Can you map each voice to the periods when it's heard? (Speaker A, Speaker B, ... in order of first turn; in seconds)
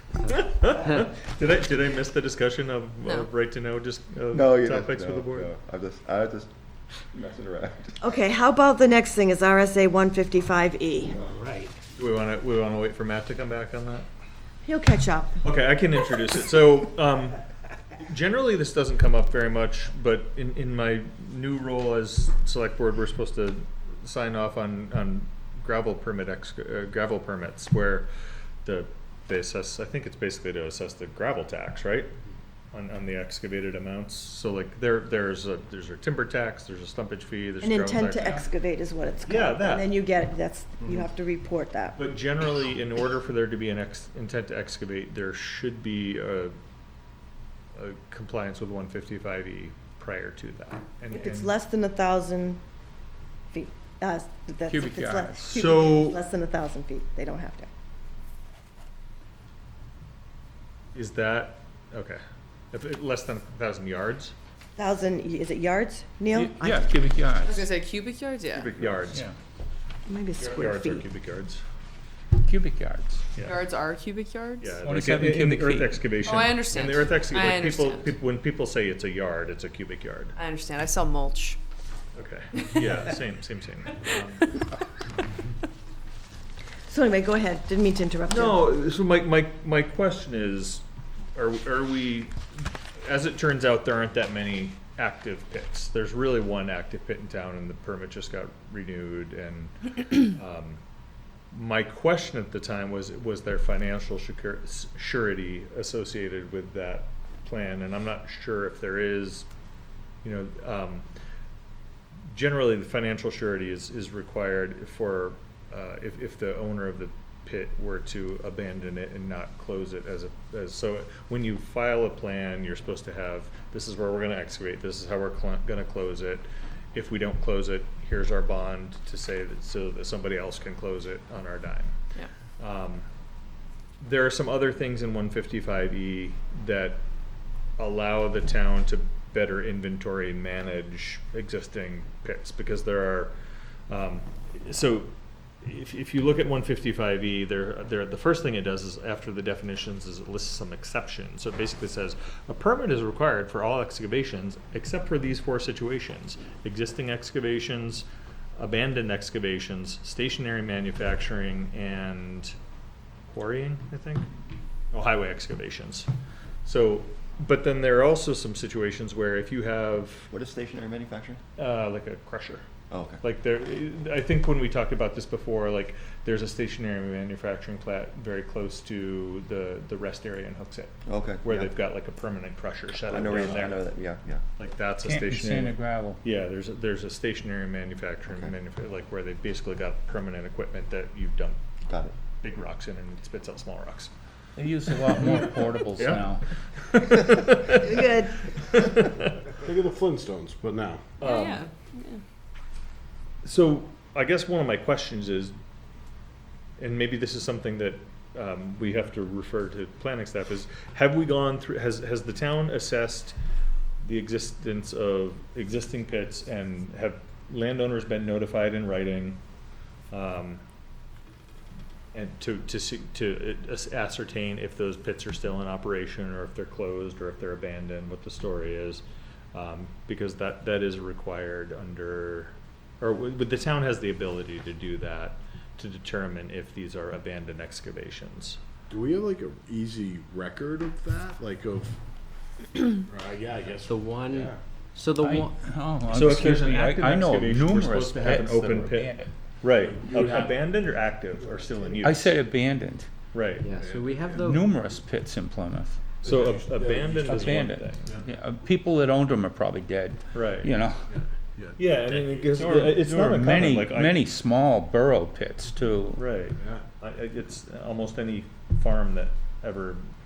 Speaker A: 0.3-5.5, 12.0-14.1, 15.4-17.4, 18.1-28.1, 28.6-32.1, 32.7-38.5, 39.3-40.0, 42.0-46.5, 47.8-51.5, 55.4-56.2, 60.9-62.2, 62.7-64.3, 68.6-69.2, 70.4-71.6, 73.3-73.6, 74.6-80.3, 82.2-84.6, 88.3-90.8, 91.3-92.3, 93.0-100.8, 101.5-109.5, 110.2-111.1, 112.3-131.9, 132.6-133.1, 134.0-137.0, 137.8-143.3, 143.9-145.1, 145.6-162.5, 163.3-164.3, 164.9-166.1, 166.6-170.3, 171.6-172.6, 173.2-183.9, 184.6-191.6, 192.4-194.1, 195.1-195.4, 196.0-196.3, 196.9-197.8, 198.7-199.3, 201.2-201.6, 203.4-205.5, 206.8-213.3, 214.0-219.4, 220.1-220.6, 222.1-238.6, 246.1-252.4, 253.3-253.7, 256.2-258.1, 260.3-260.7, 261.8-264.2, 266.1-270.1
Speaker B: 4.3-6.5, 7.1-8.0, 68.6-69.0, 170.3-171.4, 172.9-173.2, 181.1-181.7, 183.1-184.4, 191.9-192.1
Speaker C: 8.0-11.2, 14.7-15.4, 37.6-42.0, 51.1-52.6, 53.5-57.7, 64.8-66.9, 70.1-71.1, 86.9-88.7, 197.8-198.4
Speaker D: 11.3-11.7, 243.8-245.5, 253.6-254.6
Speaker E: 54.7-55.5, 66.3-67.7, 72.4-73.2, 74.8-76.2, 185.0-186.2, 194.6-196.4, 245.2-249.3, 252.0-253.1, 254.4-256.2, 257.3-261.1, 262.5-266.2
Speaker F: 67.4-68.8, 73.4-74.8, 76.2-78.1, 80.3-81.6, 201.2-202.2
Speaker G: 199.6-201.0, 238.9-242.0, 243.1-244.6, 250.0-250.6, 251.7-252.0, 253.7-254.6, 256.2-258.3, 261.1-262.4